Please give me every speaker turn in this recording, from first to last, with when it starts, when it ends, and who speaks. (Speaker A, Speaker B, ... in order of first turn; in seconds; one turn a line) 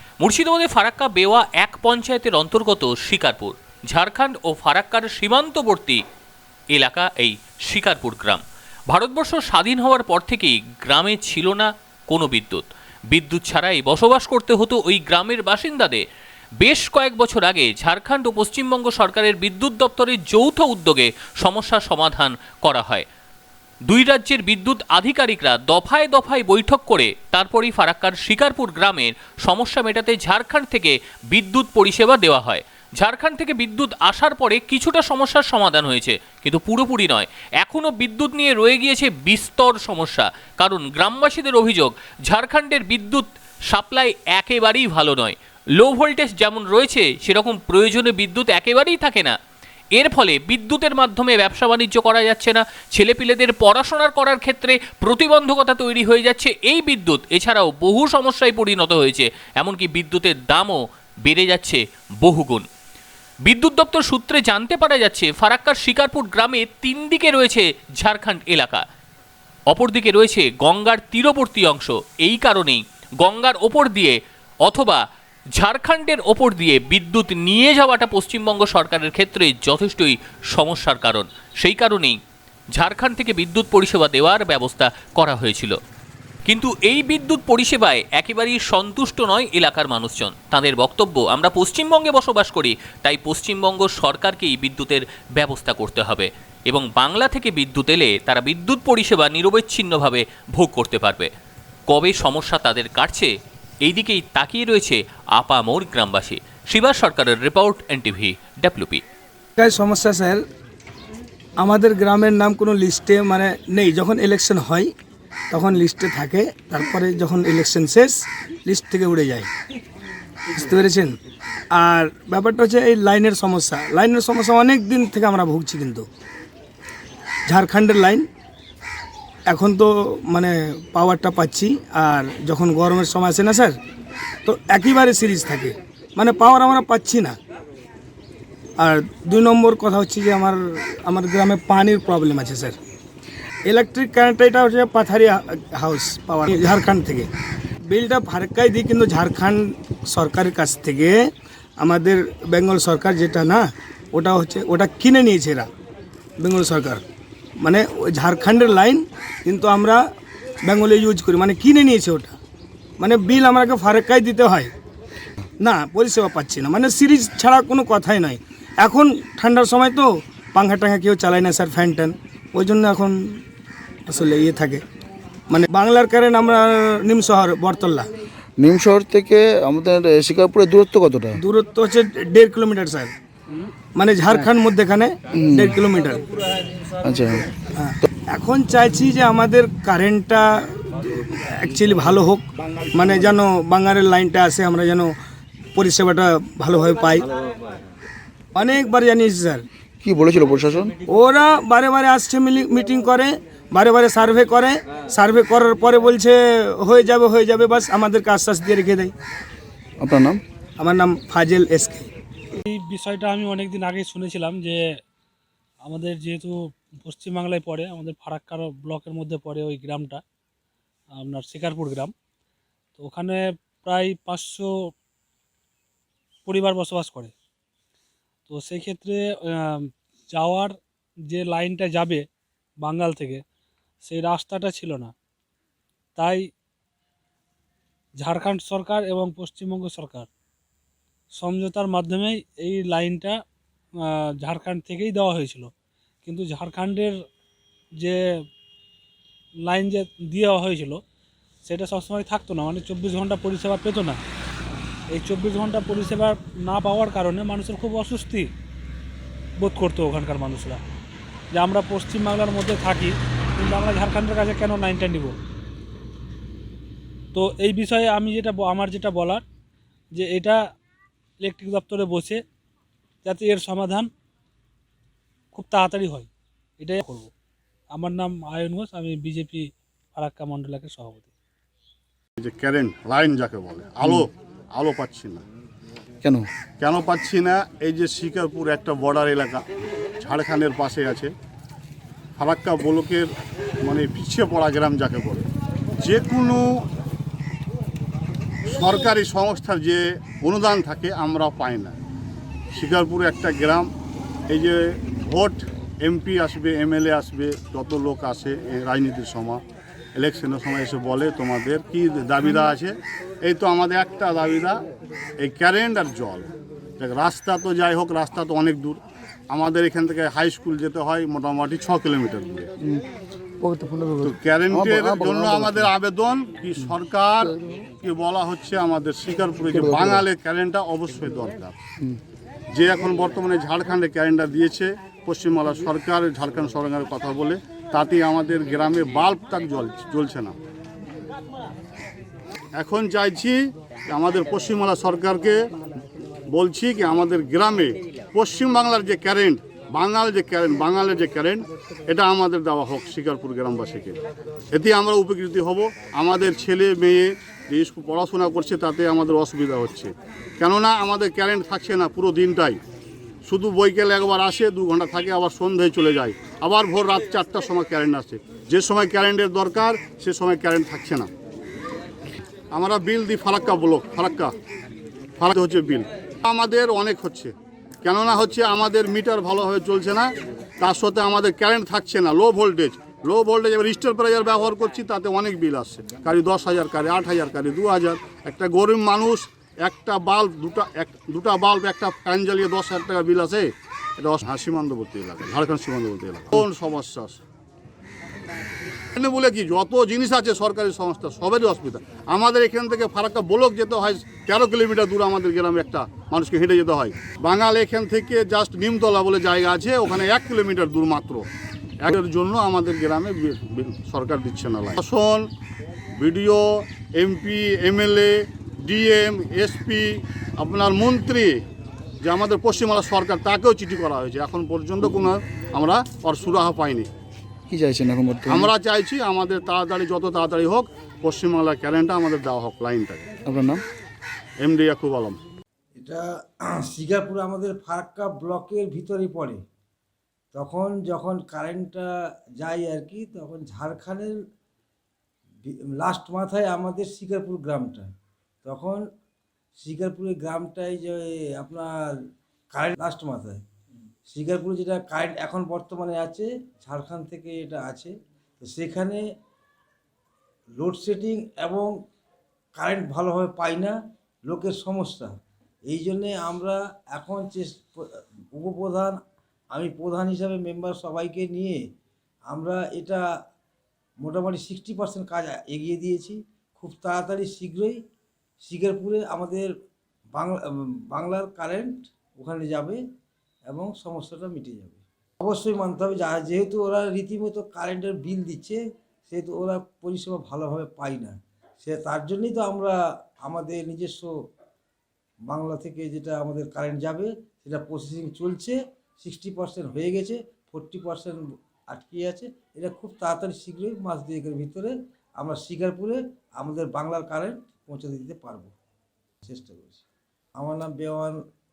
Speaker A: 0.2-6.0
Speaker A: 6.7-16.0
Speaker A: 16.6-23.1
Speaker A: 23.9-49.4
Speaker A: 50.0-62.6
Speaker A: 63.5-68.8
Speaker A: 69.7-75.0
Speaker A: 75.6-82.2
Speaker A: 82.8-85.8
Speaker A: 86.5-101.3
Speaker A: 101.9-103.3
Speaker A: 103.8-109.0
Speaker B: 109.6-110.4
Speaker B: 111.6-114.9
Speaker B: 115.5-119.5
Speaker B: 120.5-121.2
Speaker B: 121.7-126.1
Speaker B: 127.5-128.3
Speaker B: 129.5-133.8
Speaker B: 134.4-137.4
Speaker B: 138.8-142.8
Speaker B: 143.7-147.3
Speaker B: 147.9-151.3
Speaker B: 151.8-155.7
Speaker B: 156.4-157.0
Speaker B: 157.6-160.0
Speaker B: 160.7-162.4
Speaker B: 163.0-164.7
Speaker B: 165.6-173.4
Speaker B: 174.1-174.8
Speaker B: 175.5-178.1
Speaker C: 178.6-181.4
Speaker B: 181.4-183.1
Speaker B: 183.9-186.2
Speaker C: 185.3-185.8
Speaker C: 187.0-187.5
Speaker B: 187.8-195.1
Speaker B: 195.8-197.3
Speaker B: 198.6-199.7
Speaker C: 200.0-200.9
Speaker B: 201.1-209.1
Speaker C: 210.0-210.4
Speaker B: 210.8-212.1
Speaker D: 212.7-214.8
Speaker D: 215.8-220.2
Speaker D: 221.2-222.1
Speaker D: 223.0-224.7
Speaker D: 226.5-227.3
Speaker D: 228.5-230.7
Speaker D: 231.3-232.2
Speaker D: 232.8-233.4
Speaker D: 234.0-235.1
Speaker D: 236.2-236.5
Speaker D: 238.2-240.3
Speaker D: 241.4-243.4
Speaker D: 244.4-245.7
Speaker D: 246.2-247.2
Speaker D: 249.7-251.0
Speaker D: 251.7-254.2
Speaker D: 255.2-258.5
Speaker D: 259.6-260.8
Speaker D: 261.5-265.3
Speaker D: 267.3-269.4
Speaker D: 270.2-270.6
Speaker D: 271.4-272.4
Speaker D: 273.2-274.1
Speaker D: 275.5-276.3
Speaker D: 276.8-277.3
Speaker D: 277.9-281.3
Speaker E: 282.4-285.4
Speaker E: 286.8-289.6
Speaker E: 290.2-291.3
Speaker E: 292.4-293.3
Speaker E: 293.9-295.5
Speaker E: 296.0-296.7
Speaker E: 298.7-302.0
Speaker E: 302.7-303.9
Speaker E: 304.5-309.6
Speaker E: 310.2-314.8
Speaker E: 315.4-322.7
Speaker C: 323.6-325.9
Speaker E: 324.2-331.8
Speaker C: 329.7-330.2
Speaker E: 332.7-340.6
Speaker E: 342.8-343.6
Speaker E: 344.1-345.6
Speaker E: 346.5-354.2
Speaker E: 354.7-362.8
Speaker E: 363.5-371.3
Speaker E: 372.7-374.5
Speaker E: 375.4-397.4
Speaker E: 399.2-411.5
Speaker E: 412.0-415.5
Speaker E: 416.2-416.6
Speaker E: 417.1-418.3
Speaker E: 418.8-420.1
Speaker E: 420.6-421.6
Speaker E: 422.2-427.1
Speaker C: 427.7-428.7
Speaker E: 428.5-433.3
Speaker C: 433.5-433.8
Speaker E: 434.6-435.4
Speaker F: 436.0-439.6
Speaker F: 440.5-444.4
Speaker F: 445.7-448.1
Speaker F: 448.6-449.0
Speaker F: 449.8-452.1
Speaker F: 452.7-453.6
Speaker F: 454.3-459.2
Speaker F: 460.8-461.9
Speaker F: 462.8-465.3
Speaker F: 465.9-469.2
Speaker F: 469.7-471.8
Speaker F: 472.5-473.2
Speaker F: 474.2-478.0
Speaker F: 478.6-479.7
Speaker F: 480.4-483.0
Speaker F: 483.7-494.3
Speaker F: 495.5-508.7
Speaker F: 509.4-510.1
Speaker F: 510.6-511.4